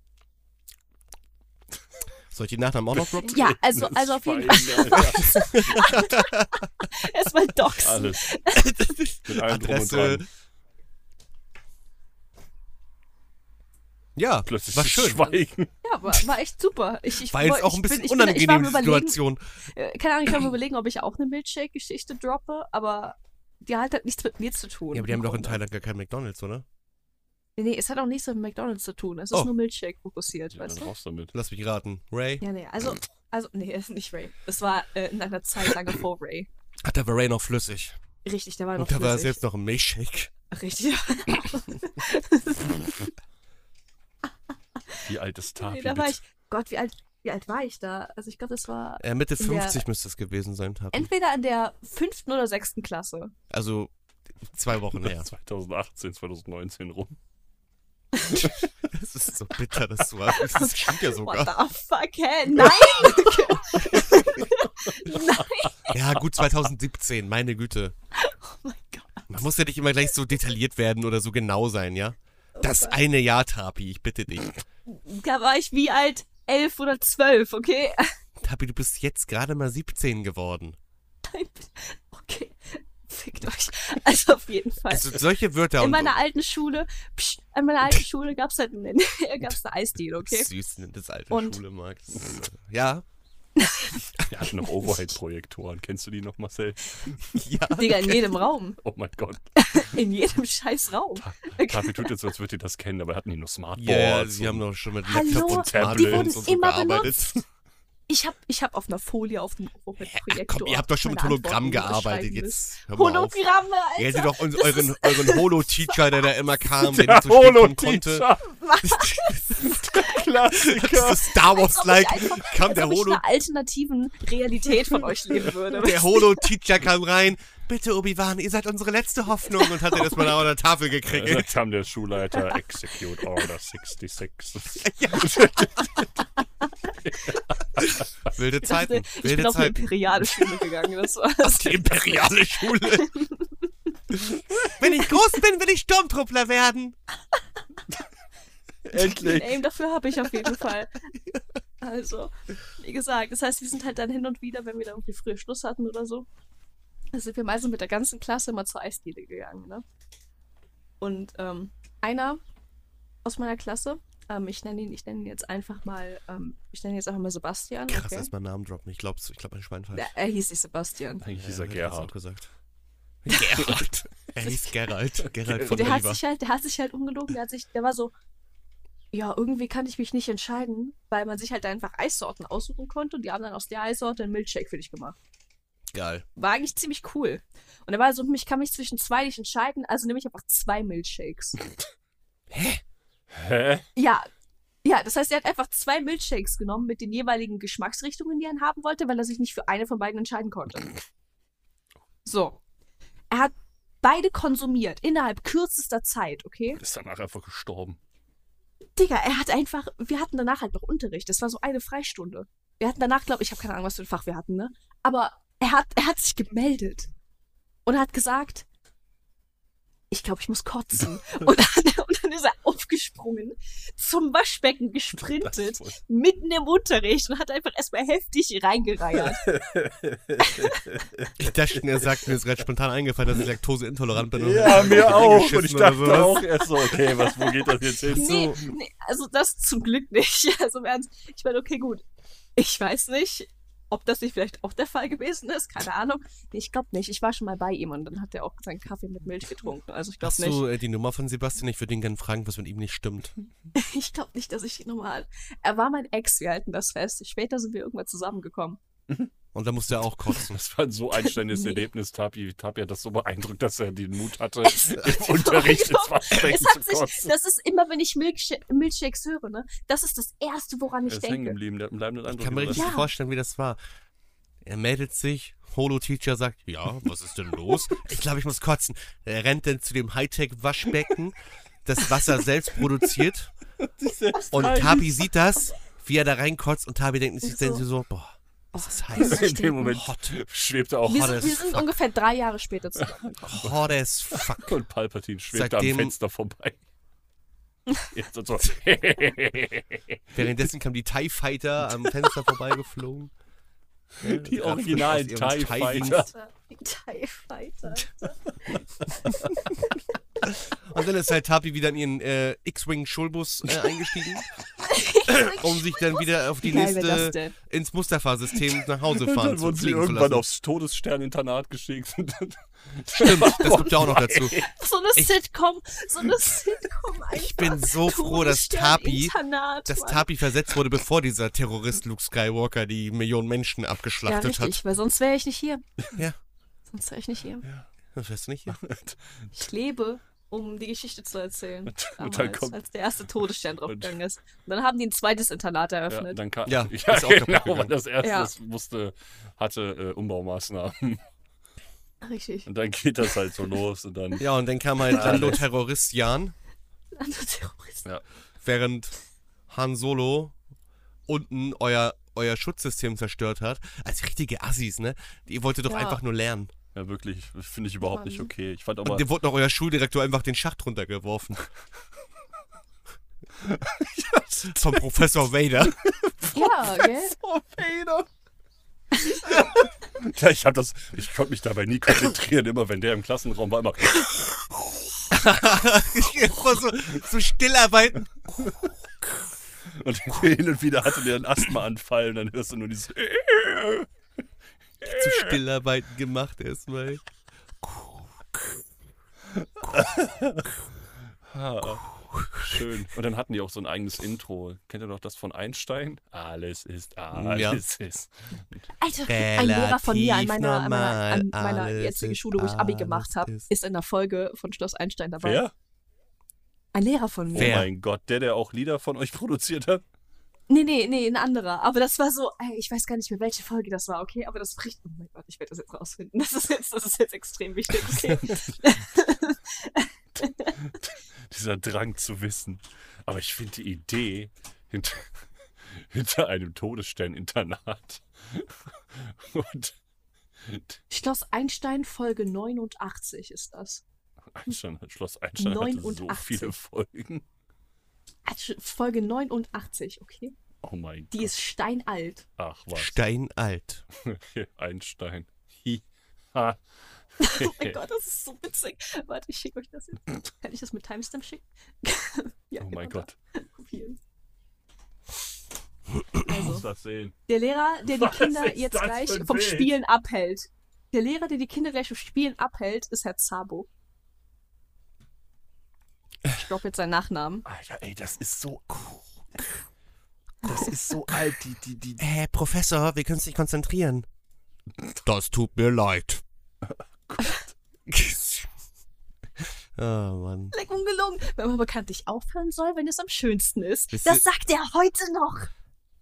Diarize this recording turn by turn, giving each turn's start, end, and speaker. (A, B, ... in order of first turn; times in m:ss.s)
0:02.3-0:03.5 A
0:03.0-0:05.8 B
0:03.3-0:08.8 C
0:05.0-0:06.7 A
0:07.8-0:08.3 B
0:08.5-0:10.2 A
0:09.2-0:10.2 B
0:14.2-0:15.4 A
0:14.4-0:15.7 B
0:15.8-0:25.6 C
0:17.3-0:19.4 A
0:24.9-0:26.6 A
0:27.6-0:30.9 C
0:30.5-0:31.3 B
0:31.3-0:32.4 A
0:32.4-0:36.5 C
0:36.8-0:38.0 A
0:38.2-0:39.4 C
0:38.8-0:40.3 A
0:40.5-0:43.1 C
0:45.0-0:46.2 B
0:45.6-0:49.8 C
0:49.0-0:51.1 A
0:50.9-0:53.3 C
0:53.5-0:53.9 A
0:54.4-0:55.3 A
0:55.0-0:57.2 B
0:58.2-0:58.4 C
0:58.8-1:01.5 A
1:00.3-1:05.9 C
1:02.6-1:04.3 A
1:05.2-1:05.6 B
1:05.9-1:07.9 A
1:08.1-1:09.4 C
1:09.3-1:14.6 A
1:12.6-1:13.0 C
1:14.9-1:18.1 C
1:18.4-1:20.8 A
1:21.2-1:25.2 C
1:24.9-1:26.2 A
1:25.8-1:30.5 C
1:30.2-1:33.0 A
1:31.3-1:31.6 C
1:33.6-1:34.0 C
1:34.2-1:37.3 B
1:37.3-1:38.2 A
1:37.7-1:38.8 C
1:38.8-1:39.9 B
1:39.6-1:42.1 C
1:41.2-1:44.6 B
1:43.8-1:47.4 A
1:45.0-1:47.1 C
1:45.2-1:46.4 B
1:48.1-1:55.7 C
1:50.0-1:53.4 A
1:54.0-1:58.3 A
1:56.8-1:58.5 B
1:58.4-2:00.2 C
1:58.8-2:03.2 A
1:59.6-2:01.4 B
2:01.3-2:06.5 C
2:05.6-2:11.5 A
2:11.1-2:16.2 B
2:14.8-2:16.0 A
2:16.6-2:17.4 C
2:17.0-2:18.0 B
2:17.8-2:20.7 A
2:18.6-2:25.2 C
2:21.4-2:23.1 A
2:24.1-2:27.0 A
2:28.9-2:29.6 B
2:28.9-2:31.0 C
2:31.8-2:36.3 C
2:37.1-2:39.8 C
2:41.0-2:42.4 C
2:43.2-2:48.3 C
2:47.9-2:50.1 A
2:49.9-2:51.2 C
2:51.2-2:52.1 B
2:51.3-2:52.5 A
2:53.2-2:56.2 A
2:54.4-2:54.7 C
2:55.2-2:55.9 B
2:55.7-2:58.1 C
2:59.1-3:05.2 C
3:05.9-3:06.2 A
3:06.4-3:11.6 C
3:12.5-3:12.8 A
3:13.3-3:13.8 B
3:14.0-3:14.3 C
3:14.8-3:20.9 C
3:22.2-3:22.6 C
3:23.3-3:26.8 C
3:26.8-3:28.0 B
3:29.0-3:37.1 C
3:37.8-3:38.6 C
3:40.1-3:49.5 C
3:45.4-3:46.0 B
3:49.2-3:51.3 B
3:50.4-3:50.8 C
3:51.4-3:56.5 A
3:54.3-3:58.7 B
3:57.1-3:57.5 C
3:58.1-4:02.0 C
4:02.6-4:10.7 C
4:10.2-4:13.3 A
4:13.7-4:18.8 C
4:19.5-4:20.6 A
4:20.3-4:27.3 B
4:21.2-4:21.8 C
4:24.6-4:31.6 C
4:31.1-4:32.9 B
4:32.3-4:33.8 A
4:32.7-4:33.1 C
4:34.6-4:43.5 A
4:43.8-4:45.3 B
4:44.5-4:50.4 A
4:47.4-4:47.8 C
4:48.7-4:50.0 C
4:49.2-4:51.5 B
4:51.1-4:53.6 C
4:51.1-4:51.9 A
4:53.0-4:53.8 B
4:53.5-4:54.8 A
4:54.3-4:56.8 B
4:55.5-4:56.1 A
4:58.1-5:00.4 B
5:00.3-5:03.3 A
5:02.0-5:02.5 B
5:04.2-5:06.3 B
5:04.2-5:06.3 A
5:06.0-5:08.4 C
5:08.7-5:09.5 B
5:09.1-5:10.0 C
5:10.5-5:14.4 A
5:14.8-5:17.5 C
5:15.3-5:20.4 A
5:19.1-5:24.7 B
5:23.1-5:24.5 A
5:24.5-5:30.3 C
5:27.3-5:29.3 A
5:29.8-5:34.8 A
5:34.2-5:35.8 C
5:36.9-5:37.6 C
5:38.1-5:38.8 A
5:38.7-5:39.5 B
5:39.5-5:46.4 C
5:41.8-5:42.8 B
5:43.9-5:44.1 B
5:46.1-5:51.2 B
5:46.6-5:47.9 A
5:48.2-5:48.5 C
5:52.2-5:52.7 C
5:52.6-5:54.5 B
5:54.4-5:56.5 A
5:55.0-5:55.6 B
5:57.1-5:58.0 C
5:58.6-5:59.1 A
5:59.7-6:00.5 A
6:01.3-6:06.7 A
6:05.9-6:06.2 C
6:06.9-6:09.2 B
6:08.0-6:08.5 C
6:09.0-6:11.6 A
6:13.6-6:15.3 B
6:14.7-6:16.0 A
6:15.9-6:18.3 B
6:16.5-6:17.3 C
6:19.2-6:25.2 B
6:25.3-6:28.9 A
6:29.9-6:34.1 B
6:35.0-6:35.6 B
6:35.0-6:37.2 A
6:37.8-6:38.8 A
6:39.6-6:40.7 B
6:41.5-6:48.8 B
6:42.1-6:42.8 A
6:47.3-6:47.8 A
6:49.0-6:55.6 C
6:49.3-6:53.7 A
6:55.4-6:55.7 B
6:56.9-6:57.8 C
6:57.5-7:00.0 B
6:57.6-6:57.9 A
7:00.7-7:10.8 C
7:08.4-7:08.7 B
7:10.8-7:15.3 B
7:15.9-7:19.9 B
7:20.6-7:21.0 B
7:21.1-7:24.0 C
7:24.5-7:27.4 B
7:25.6-7:26.7 C
7:28.4-7:30.5 C
7:30.8-7:31.5 B
7:31.3-7:32.4 C
7:32.6-7:33.2 B
7:32.9-7:34.0 A
7:34.2-7:36.0 B
7:36.5-7:36.8 B
7:37.4-7:44.2 C
7:37.4-7:38.0 B
7:42.8-7:43.3 B
7:46.4-7:46.8 C
7:46.4-7:47.3 B
7:47.5-7:53.9 C
7:48.0-7:49.9 B
7:56.5-7:57.6 C
7:57.6-7:59.8 B
8:00.6-8:02.2 B
8:02.2-8:04.3 A
8:05.2-8:06.4 A
8:06.8-8:07.7 B
8:08.1-8:08.7 A
8:10.0-8:10.7 A
8:10.7-8:15.7 C
8:14.1-8:14.4 A